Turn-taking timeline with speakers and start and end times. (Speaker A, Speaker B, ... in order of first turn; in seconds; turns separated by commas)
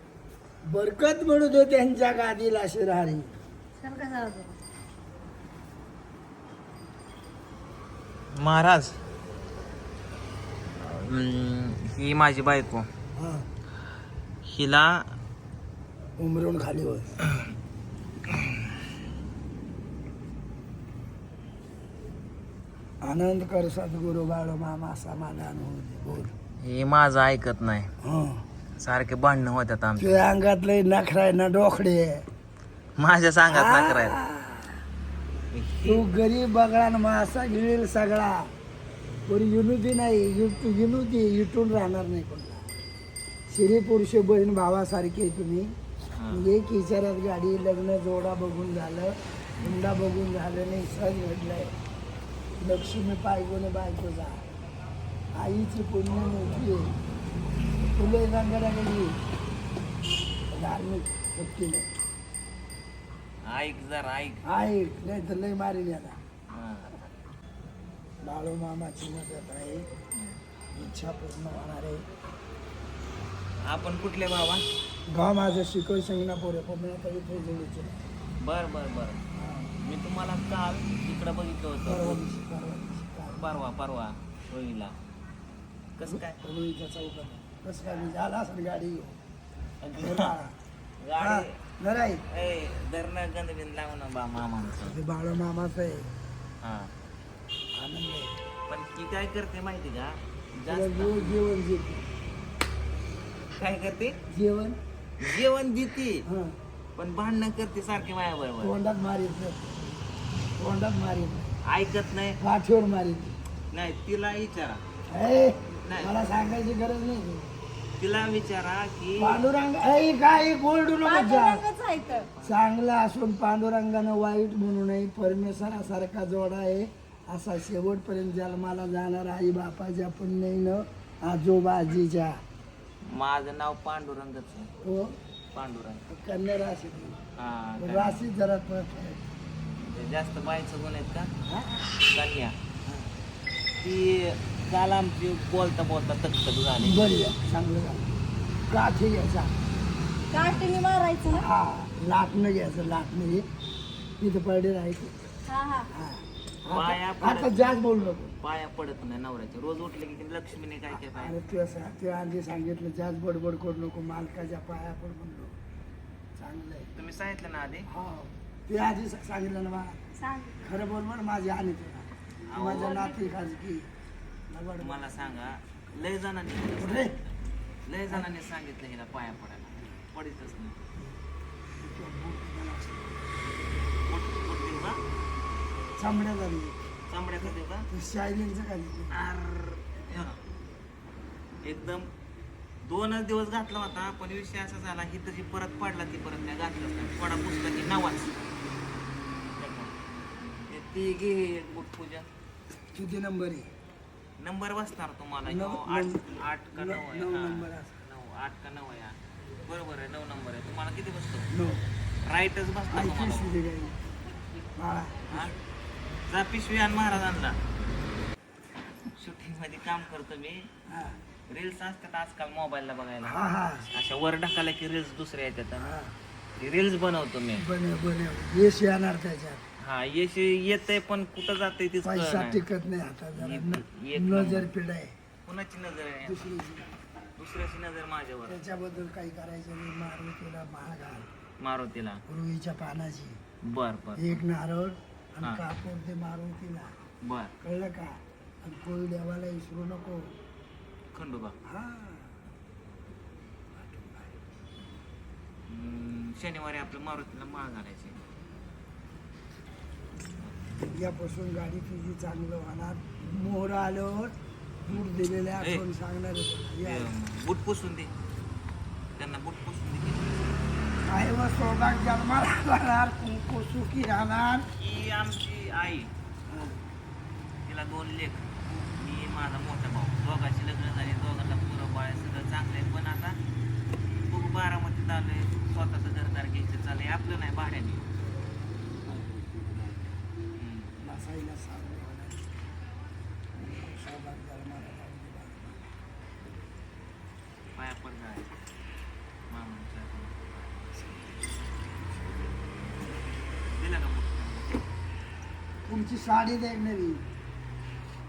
Speaker A: 0.6-3.3, Speaker B: 3.8-4.5, Speaker C: 8.3-9.0, Speaker C: 10.8-12.9, Speaker A: 13.2-13.5, Speaker C: 14.4-15.1, Speaker A: 16.2-17.1, Speaker A: 23.0-26.3, Speaker C: 26.6-27.9, Speaker A: 28.0-28.4, Speaker C: 28.8-30.2, Speaker A: 30.0-32.2, Speaker C: 33.0-34.1, Speaker A: 33.5-34.8, Speaker C: 35.5-36.0, Speaker A: 35.8-38.5, Speaker A: 39.2-42.7, Speaker A: 43.5-45.7, Speaker C: 46.1-46.5, Speaker A: 46.3-51.7, Speaker A: 52.6-54.5, Speaker A: 55.3-57.0, Speaker C: 57.5-58.0, Speaker A: 58.0-59.1, Speaker A: 60.5-61.9, Speaker C: 63.5-64.4, Speaker A: 64.5-66.2, Speaker C: 66.5-66.9, Speaker A: 68.2-69.9, Speaker A: 70.7-72.0, Speaker C: 73.7-74.6, Speaker A: 75.1-78.0, Speaker C: 78.4-79.2, Speaker A: 79.3-79.7, Speaker C: 79.8-82.2, Speaker A: 81.8-83.4, Speaker C: 83.3-84.9, Speaker C: 86.0-86.4, Speaker A: 86.1-89.2, Speaker C: 89.8-90.3, Speaker A: 90.0-90.5, Speaker C: 91.0-91.5, Speaker A: 91.2-92.2, Speaker C: 92.3-95.0, Speaker A: 94.8-96.1, Speaker C: 96.6-96.9, Speaker A: 97.7-98.3, Speaker C: 98.7-101.3, Speaker A: 100.7-102.1, Speaker C: 103.5-104.2, Speaker A: 104.3-104.8, Speaker C: 105.2-106.2, Speaker A: 106.2-106.5, Speaker C: 107.0-108.7, Speaker A: 108.6-109.7, Speaker A: 110.6-111.5, Speaker C: 111.7-112.4, Speaker A: 112.4-113.3, Speaker C: 113.7-114.8, Speaker A: 115.1-117.5, Speaker C: 115.8-116.1, Speaker C: 118.0-119.4, Speaker A: 119.2-121.6, Speaker B: 121.0-122.3, Speaker C: 122.1-122.6, Speaker A: 122.4-132.4, Speaker C: 133.0-134.7, Speaker A: 134.8-135.2, Speaker C: 135.5-136.0, Speaker A: 136.1-137.2, Speaker C: 137.4-138.2, Speaker A: 137.8-139.2, Speaker C: 139.8-141.3, Speaker A: 141.4-141.8, Speaker C: 142.1-142.5, Speaker C: 143.8-147.0, Speaker A: 146.8-148.1, Speaker A: 148.7-149.5, Speaker B: 150.3-151.4, Speaker A: 151.3-153.4, Speaker A: 154.2-155.1, Speaker B: 155.5-155.9, Speaker A: 155.9-158.3, Speaker C: 156.7-157.7, Speaker C: 158.4-161.3, Speaker A: 160.9-165.5, Speaker A: 166.4-166.9, Speaker C: 166.9-167.9, Speaker A: 167.9-170.0, Speaker B: 170.2-170.6, Speaker A: 170.6-173.9, Speaker C: 172.5-173.0, Speaker B: 172.8-173.2, Speaker A: 174.5-175.2, Speaker C: 174.8-180.8, Speaker A: 176.8-177.2, Speaker A: 181.8-183.1, Speaker C: 184.1-185.0, Speaker A: 186.0-186.8, Speaker C: 187.1-187.9, Speaker A: 187.4-189.2, Speaker C: 189.1-190.4, Speaker C: 191.6-192.1, Speaker C: 192.8-198.4, Speaker C: 199.6-199.9, Speaker C: 200.7-202.3, Speaker A: 202.9-203.7, Speaker C: 204.4-209.1, Speaker A: 205.4-207.9, Speaker C: 209.7-211.5, Speaker A: 211.5-211.8, Speaker C: 212.2-213.5, Speaker A: 212.9-214.0, Speaker A: 214.8-215.5, Speaker C: 216.3-217.6, Speaker C: 219.2-220.7, Speaker A: 220.9-221.2, Speaker C: 221.5-225.9, Speaker A: 223.2-223.9, Speaker A: 225.8-226.1, Speaker C: 226.6-227.6, Speaker A: 227.6-229.6, Speaker C: 229.8-232.6, Speaker A: 232.0-235.1, Speaker C: 233.4-234.7, Speaker C: 235.4-236.5, Speaker A: 236.3-236.9, Speaker C: 237.4-238.6, Speaker A: 238.5-241.3, Speaker C: 241.6-242.2, Speaker A: 242.3-243.4, Speaker C: 243.6-244.4, Speaker A: 244.2-246.9, Speaker C: 247.2-247.5, Speaker A: 247.6-250.3, Speaker C: 251.1-251.5, Speaker A: 251.6-252.4, Speaker A: 253.7-254.3, Speaker C: 255.7-258.2, Speaker A: 260.9-264.3, Speaker A: 264.9-267.1, Speaker C: 266.8-268.1, Speaker C: 269.2-270.6, Speaker A: 271.1-274.7, Speaker C: 274.8-276.1, Speaker C: 277.6-283.4, Speaker C: 284.3-288.1, Speaker A: 289.0-290.0, Speaker C: 290.6-291.2, Speaker A: 291.0-292.6, Speaker A: 293.6-295.8, Speaker C: 297.7-298.5, Speaker C: 299.5-301.3, Speaker C: 303.7-304.8, Speaker A: 305.9-307.2